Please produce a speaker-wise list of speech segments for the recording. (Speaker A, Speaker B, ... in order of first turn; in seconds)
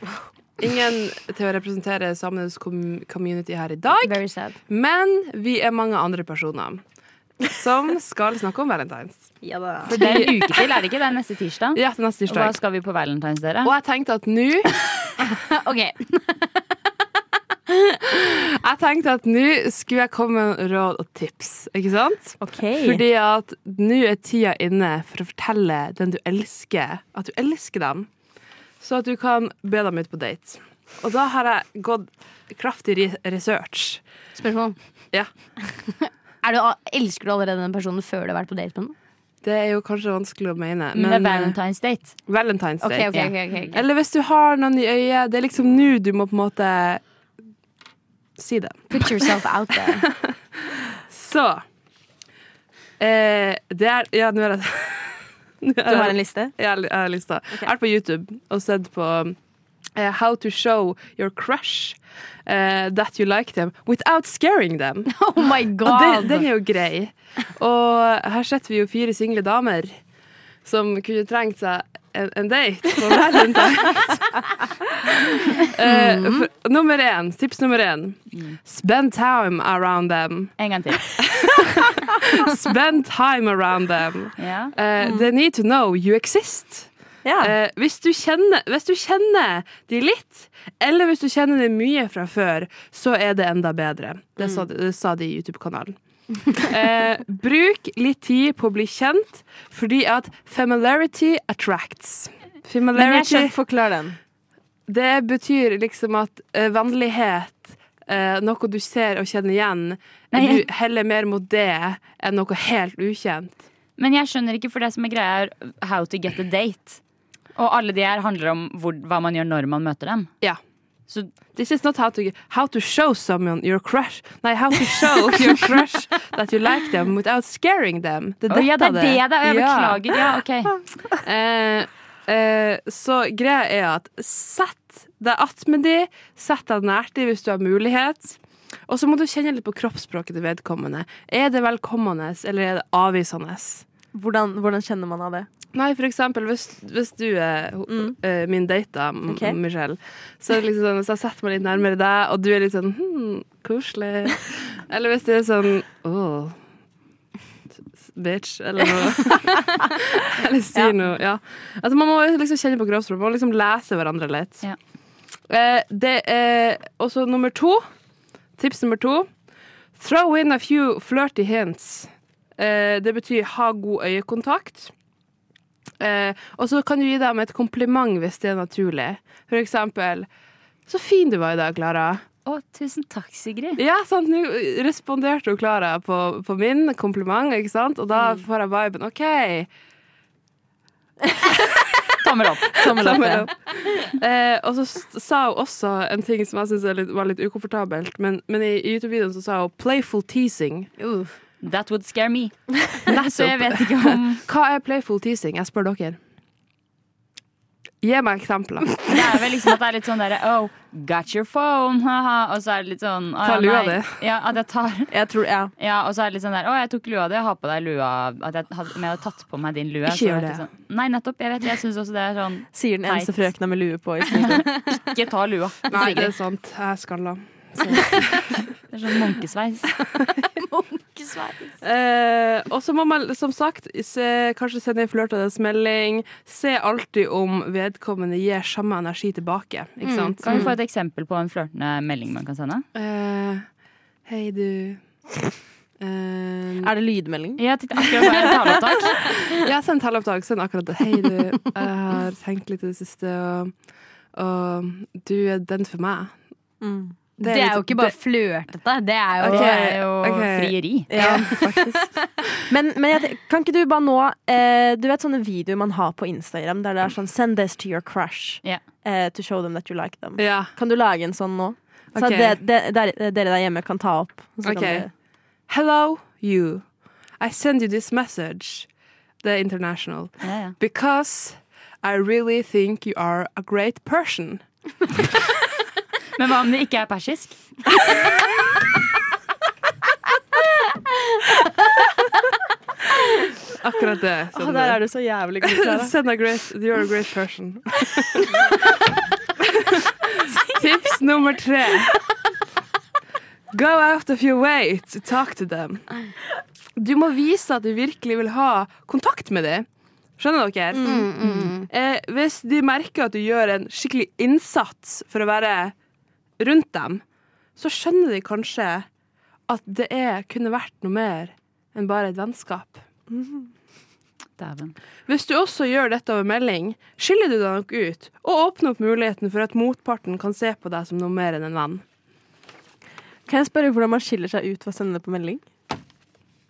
Speaker A: 0.6-6.8, 7.4-9.3, 9.8-10.7, 11.8-12.6, 13.6-14.8, 18.1-28.1, 28.8-34.0, 39.4-41.6, 42.3-47.0, 48.4-49.4, 50.0-51.6, 53.0-59.4, 60.0-65.1, 65.8-69.9, 70.7-74.4, 75.0-80.5, 81.2-96.0, 96.5-103.5, 104.9-113.6, 121.5-130.3, 131.2-138.4, 138.9-143.8, 145.7-156.6, 158.1-164.7, 165.5-167.8, 168.6-169.3, 170.0-174.9, 176.0-180.3, 180.9-182.2, 183.8-189.7, 192.8-200.9, 203.1-206.2, 208.0-209.1, 213.4-214.2, 220.1-220.6, 225.9-228.5, 231.8-240.7, 242.9-243.7, 244.3-245.0, 246.0-246.9, 249.2-253.7, 254.3-256.4, 257.4-258.1, 259.4-261.6, 270.4-270.7, 272.1-272.6, 274.6-275.1, 275.7-276.9, 277.4-278.9, 279.4-284.6, 293.8-295.0, 295.6-298.8, 300.4-302.2, 303.7-306.1, 307.0-309.9, 310.4-311.2, 311.9-315.9, 316.6-317.2, 317.8-319.1, 319.7-323.0, 325.3-332.0
Speaker B: 4.0-4.6, 15.3-16.5, 17.7-18.0, 34.4-34.8, 35.7-39.0, 42.8-43.8, 48.9-50.1, 65.1-66.5, 75.8-76.5, 201.0-201.3, 230.6-231.8, 240.0-240.7, 257.4-260.4, 311.0-311.9
Speaker C: 9.4-9.9, 22.4-23.0, 55.9-56.5, 87.2-87.5, 103.0-104.2, 144.1-145.5, 147.9-148.1, 149.3-149.6, 192.8-193.5, 215.1-215.7, 222.7-224.7, 246.8-247.6, 256.8-257.1, 261.1-262.1, 262.6-275.1, 294.5-296.1, 310.9-311.3, 323.3-323.7, 333.5-335.6
Speaker D: 9.9-13.7, 41.0-42.1, 43.1-43.8, 78.3-78.6, 80.6-81.3, 84.4-84.7, 110.3-110.7, 114.0-117.0, 117.6-120.3, 128.5-130.8, 182.4-183.8, 192.2-193.2, 201.6-204.4, 209.0-215.1, 215.8-223.4, 224.3-226.3, 228.9-230.0, 240.4-242.8, 247.6-249.3, 260.5-261.4, 280.4-280.8, 286.4-288.0, 324.6-325.0